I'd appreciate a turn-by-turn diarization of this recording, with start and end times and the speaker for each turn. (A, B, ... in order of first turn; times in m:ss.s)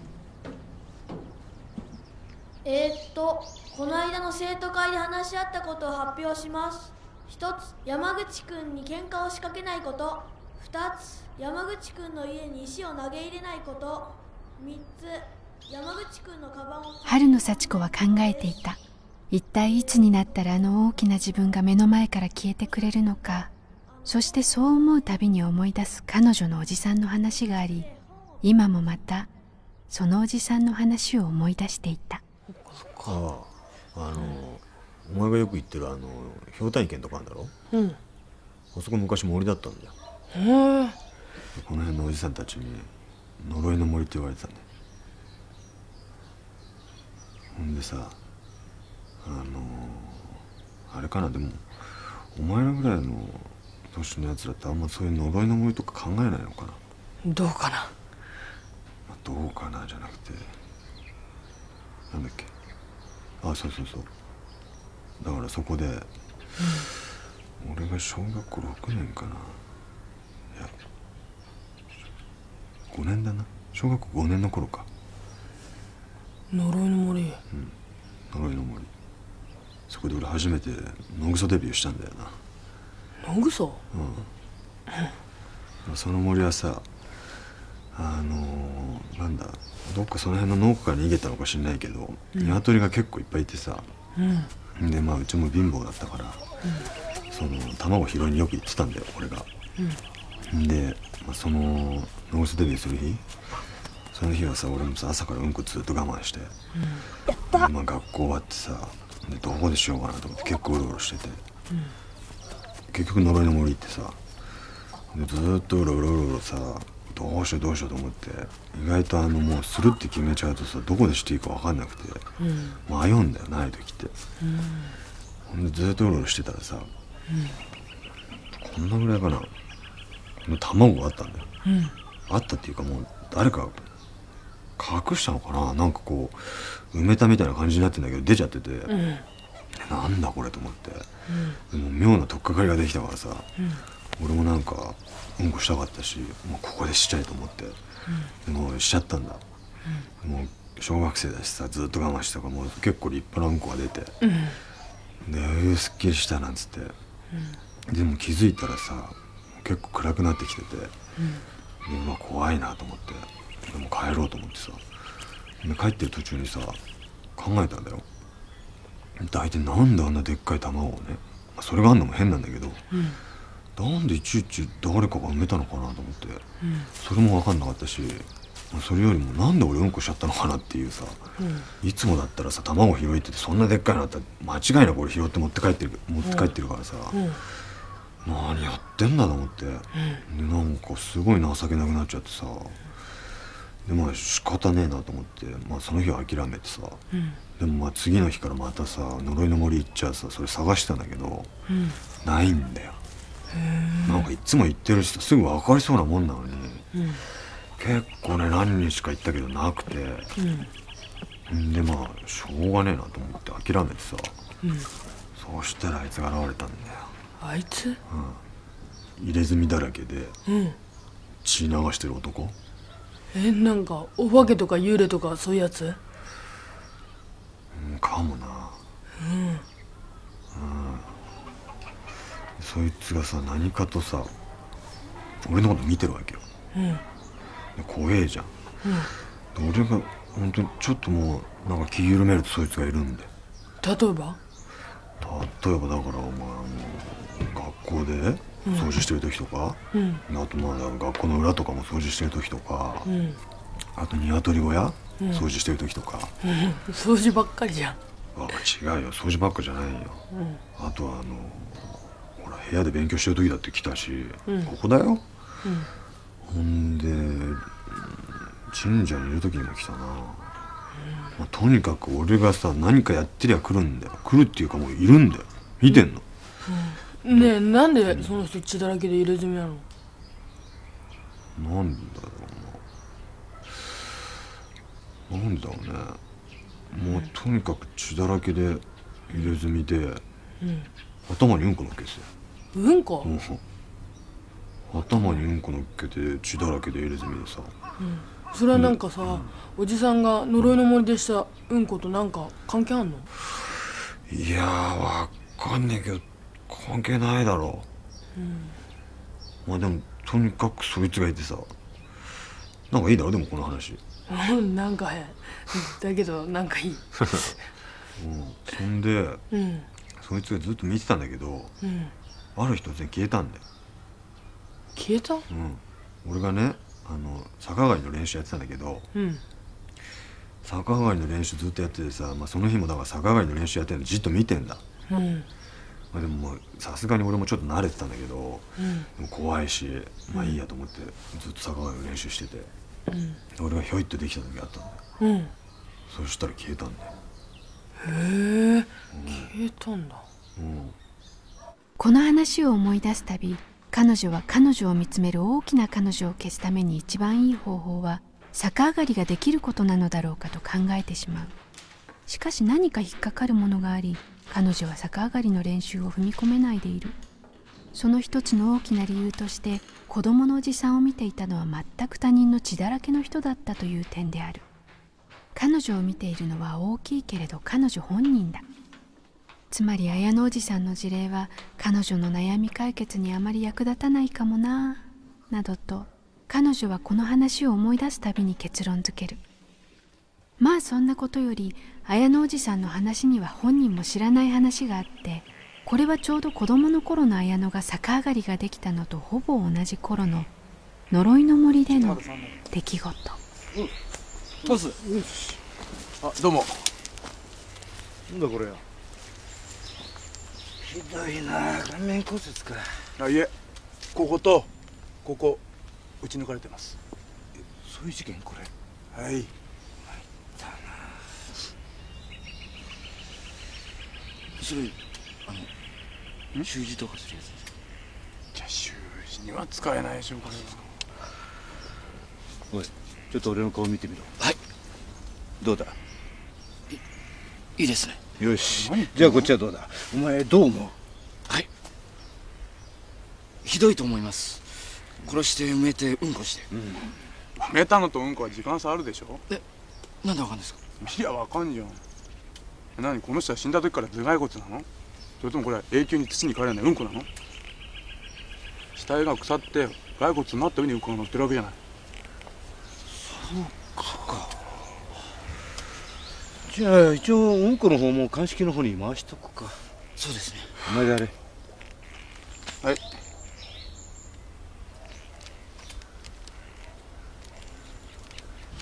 0:02.6-0:17.1 A
0:17.0-0:23.5 B
0:24.0-0:27.9 B
0:28.4-0:29.3 B
0:29.9-0:32.2 B
0:32.6-0:33.1 C
0:33.0-0:37.5 D
0:37.7-0:38.0 C
0:38.7-0:39.9 D
0:40.3-0:41.0 C
0:41.6-0:44.6 D
0:47.5-0:48.2 D
0:49.2-0:56.8 D
0:57.2-0:57.9 C
0:59.1-1:00.6 D
1:02.1-1:02.5 D
1:03.4-1:04.1 D
1:05.2-1:06.1 D
1:06.6-1:06.8 C
1:07.6-1:09.6 D
1:12.9-1:14.9 D
1:16.5-1:17.4 C
1:17.5-1:17.8 D
1:18.3-1:18.9 D
1:19.9-1:22.4 D
1:23.2-1:23.8 C
1:23.9-1:24.3 D
1:25.8-1:26.9 D
1:27.9-1:33.9 D
1:32.3-1:32.6 C
1:34.2-1:34.5 C
1:34.8-1:36.4 D
1:37.3-1:39.5 D
1:40.5-1:43.2 D
1:44.1-1:46.5 D
1:46.8-1:47.0 C
1:47.5-1:51.4 D
1:52.9-1:54.2 D
1:55.1-2:02.3 D
2:02.4-2:02.8 C
2:02.8-2:04.1 D
2:04.4-2:04.9 C
2:05.4-2:06.9 D
2:08.5-2:09.5 D
2:10.4-2:11.5 D
2:11.6-2:11.9 C
2:12.3-2:13.9 D
2:14.8-2:18.9 D
2:18.9-2:19.2 C
2:19.8-2:21.1 D
2:21.3-2:21.6 C
2:21.7-2:23.5 D
2:24.2-2:27.8 D
2:28.4-2:29.4 D
2:30.2-2:34.2 D
2:34.2-2:34.6 C
2:35.2-2:36.9 D
2:37.9-2:40.9 D
2:41.8-2:44.8 D
2:45.6-2:46.8 D
2:47.4-2:48.0 D
2:49.2-2:52.8 D
2:52.9-2:53.2 C
2:53.8-3:01.2 D
3:01.4-3:01.7 C
3:01.8-3:07.6 D
3:06.2-3:06.5 C
3:07.1-3:07.4 C
3:08.2-3:12.8 D
3:13.8-3:17.0 D
3:17.6-3:21.5 D
3:21.7-3:22.0 C
3:22.2-3:23.0 D
3:23.5-3:24.2 C
3:24.0-3:27.2 D
3:26.9-3:27.2 C
3:27.7-3:30.3 D
3:30.4-3:30.7 C
3:31.5-3:34.4 D
3:34.6-3:34.9 C
3:35.3-3:37.1 D
3:37.4-3:38.0 C
3:38.1-3:38.4 D
3:39.2-3:40.3 D
3:40.5-3:40.8 C
3:41.4-3:42.6 D
3:43.3-3:46.0 C
3:47.7-3:48.8 D
3:49.2-3:49.6 C
3:50.5-3:51.1 D
3:52.6-3:54.3 D
3:55.4-3:56.4 D
3:56.7-3:57.0 C
3:57.8-3:58.5 D
3:58.8-3:59.1 C
3:59.5-4:03.3 D
4:03.8-4:04.4 C
4:05.2-4:13.1 D
4:09.9-4:10.2 C
4:13.0-4:13.4 C
4:14.0-4:16.3 D
4:15.2-4:15.4 C
4:16.4-4:18.0 C
4:18.3-4:20.2 D
4:20.3-4:20.6 C
4:20.8-4:25.2 D
4:24.5-4:24.7 C
4:26.4-4:30.5 D
4:31.4-4:36.2 D
4:36.7-4:39.8 C
4:38.1-4:38.4 D
4:41.6-4:42.8 D
4:43.7-4:44.1 D
4:45.3-4:46.2 D
4:46.9-4:50.2 D
4:50.6-4:50.9 C
4:51.2-4:52.3 D
4:52.7-4:53.3 C
4:53.2-4:53.6 D
4:54.9-4:57.7 D
4:58.0-5:03.3 C
4:58.7-4:59.5 D
5:04.2-5:07.9 D
5:08.4-5:08.8 C
5:09.6-5:11.7 D
5:12.9-5:14.0 D
5:14.3-5:17.0 C
5:17.1-5:17.6 D
5:18.1-5:19.4 D
5:19.5-5:19.9 C
5:20.2-5:21.7 D
5:21.8-5:22.1 C
5:22.6-5:23.6 D
5:25.0-5:25.4 C
5:25.5-5:29.1 D
5:29.1-5:29.4 C
5:30.6-5:34.8 D
5:35.1-5:35.5 C
5:36.1-5:42.7 D
5:38.8-5:39.1 C
5:43.1-5:43.4 C
5:43.6-5:45.0 D
5:45.2-5:45.5 C
5:46.1-5:47.1 D
5:48.0-5:50.2 C
5:49.1-5:49.5 D
5:50.6-5:51.0 D
5:52.0-6:01.5 B
6:02.3-6:07.2 B
6:07.9-6:14.6 B
6:15.5-6:18.6 B
6:19.7-6:29.4 B
6:30.6-6:40.5 B
6:41.1-6:43.4 B
6:42.1-6:42.5 E
6:44.7-6:44.9 E
6:46.2-6:46.7 F
6:48.3-6:48.8 E
6:50.8-6:53.1 E
6:53.2-6:53.5 F
6:54.1-6:54.7 F
6:55.2-6:55.6 F
6:56.2-6:57.0 F
6:57.8-6:58.7 E
6:59.2-6:59.5 F
7:00.6-7:01.1 E
7:04.6-7:04.9 E
7:06.6-7:07.5 E
7:08.6-7:10.8 F
7:12.7-7:14.6 E
7:15.6-7:15.9 E
7:17.8-7:20.9 E
7:23.6-7:26.7 E
7:27.6-7:29.4 F
7:30.2-7:31.0 E
7:31.0-7:32.0 F
7:33.0-7:34.8 F
7:35.4-7:37.3 F
7:39.0-7:41.7 F
7:43.2-7:44.6 E
7:46.7-7:51.3 E